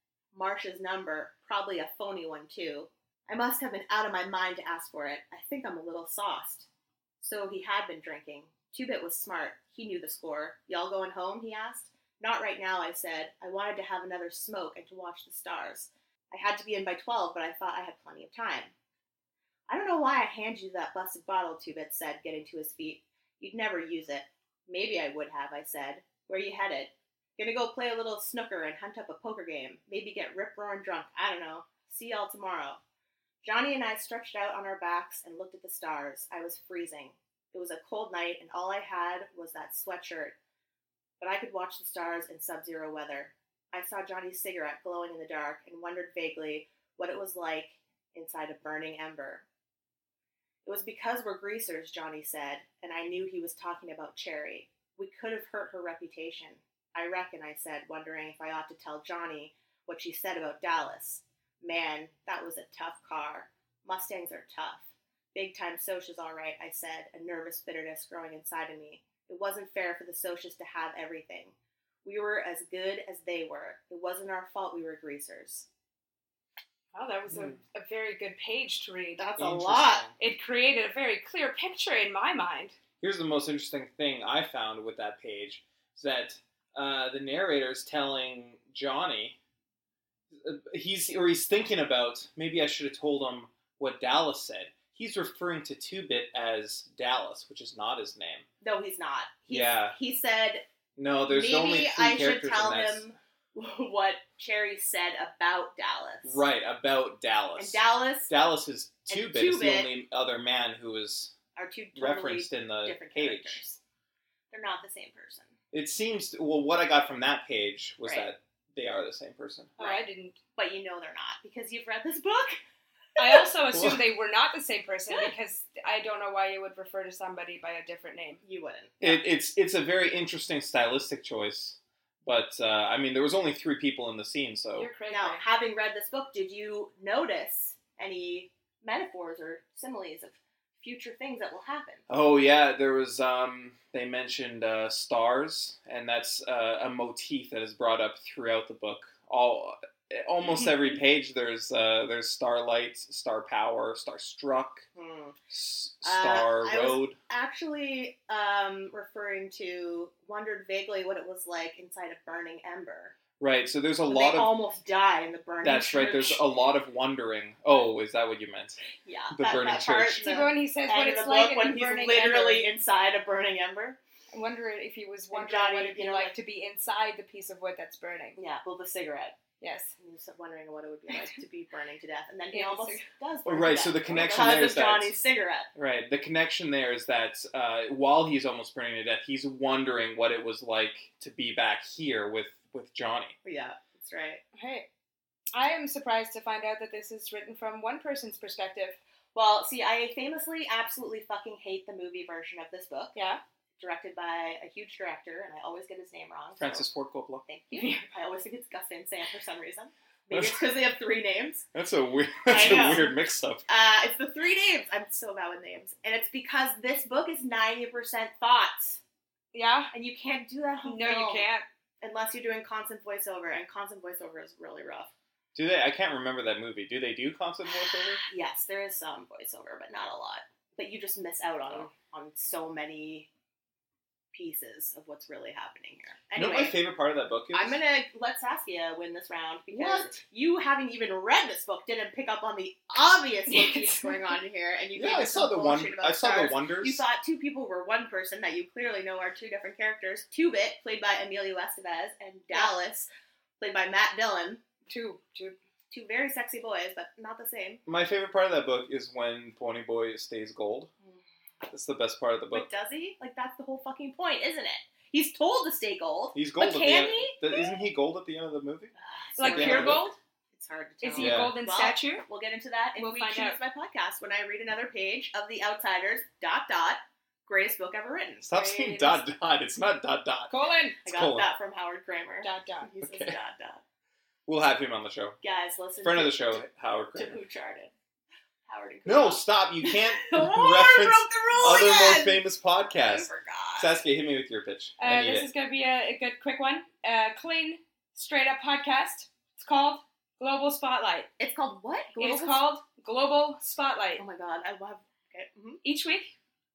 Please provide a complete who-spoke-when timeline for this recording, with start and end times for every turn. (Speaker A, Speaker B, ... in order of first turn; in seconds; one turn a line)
Speaker A: 0.3-6.7
Speaker A: 7.2-18.7
Speaker A: 19.7-32.8
Speaker A: 33.4-40.4
Speaker A: 41.2-49.4
Speaker A: 50.6-75.7
Speaker B: 76.9-79.2
Speaker A: 79.2-80.0
Speaker C: 79.4-80.2
Speaker B: 80.2-82.8
Speaker C: 83.0-89.4
Speaker C: 90.4-98.5
Speaker A: 98.6-100.6
Speaker C: 99.5-100.0
Speaker C: 101.0-103.0
Speaker A: 101.3-106.4
Speaker C: 106.2-111.3
Speaker A: 107.6-108.4
Speaker A: 109.1-109.9
Speaker A: 111.5-113.8
Speaker C: 112.0-113.6
Speaker A: 114.5-115.5
Speaker C: 115.7-119.9
Speaker B: 119.8-120.4
Speaker A: 120.6-122.6
Speaker B: 123.2-128.4
Speaker C: 123.7-124.0
Speaker A: 128.4-129.2
Speaker C: 129.0-134.9
Speaker B: 134.8-135.4
Speaker A: 135.1-142.0
Speaker C: 142.1-154.9
Speaker A: 154.9-155.4
Speaker C: 155.5-157.2
Speaker A: 156.0-163.2
Speaker C: 163.4-164.5
Speaker A: 164.1-166.4
Speaker C: 165.6-168.8
Speaker A: 169.0-174.0
Speaker C: 169.3-170.2
Speaker B: 170.2-172.7
Speaker B: 174.3-178.4
Speaker A: 175.3-176.3
Speaker A: 178.4-179.4
Speaker B: 179.6-179.9
Speaker A: 180.0-185.7
Speaker B: 182.5-183.0
Speaker C: 183.4-185.1
Speaker C: 185.8-193.4
Speaker A: 193.4-194.4
Speaker B: 194.6-194.9
Speaker B: 195.5-199.0
Speaker A: 199.3-203.2
Speaker B: 203.2-203.4
Speaker A: 203.8-206.9
Speaker C: 206.6-207.4
Speaker A: 207.4-211.7
Speaker B: 207.7-208.1
Speaker C: 210.3-210.7
Speaker C: 211.7-213.7
Speaker A: 212.5-213.1
Speaker A: 213.7-219.0
Speaker B: 219.5-219.9
Speaker A: 219.9-221.5
Speaker B: 220.8-221.7
Speaker A: 222.0-225.1
Speaker C: 225.6-228.2
Speaker A: 228.2-233.3
Speaker A: 234.3-236.8
Speaker C: 236.4-237.8
Speaker A: 237.5-253.1
Speaker C: 239.7-240.2
Speaker B: 243.5-244.2
Speaker C: 245.0-247.0
Speaker B: 252.5-252.8
Speaker A: 253.6-254.6
Speaker B: 254.9-255.6
Speaker A: 255.9-257.8
Speaker C: 257.9-260.9
Speaker C: 261.7-262.7
Speaker A: 262.5-267.8
Speaker C: 266.4-270.0
Speaker A: 269.0-279.2
Speaker B: 269.4-270.2
Speaker B: 271.0-272.3
Speaker C: 271.2-271.5
Speaker B: 273.0-273.6
Speaker C: 278.5-280.5
Speaker B: 280.5-281.0
Speaker C: 281.1-281.5
Speaker A: 281.1-283.8
Speaker B: 282.4-282.9
Speaker C: 283.0-283.4
Speaker C: 284.5-285.4
Speaker A: 285.4-287.9
Speaker C: 286.0-287.4
Speaker A: 288.7-292.4
Speaker C: 289.1-295.5
Speaker A: 292.9-294.0
Speaker B: 295.0-301.3
Speaker A: 301.4-302.6
Speaker B: 302.2-304.2
Speaker A: 304.2-305.8
Speaker B: 305.8-306.3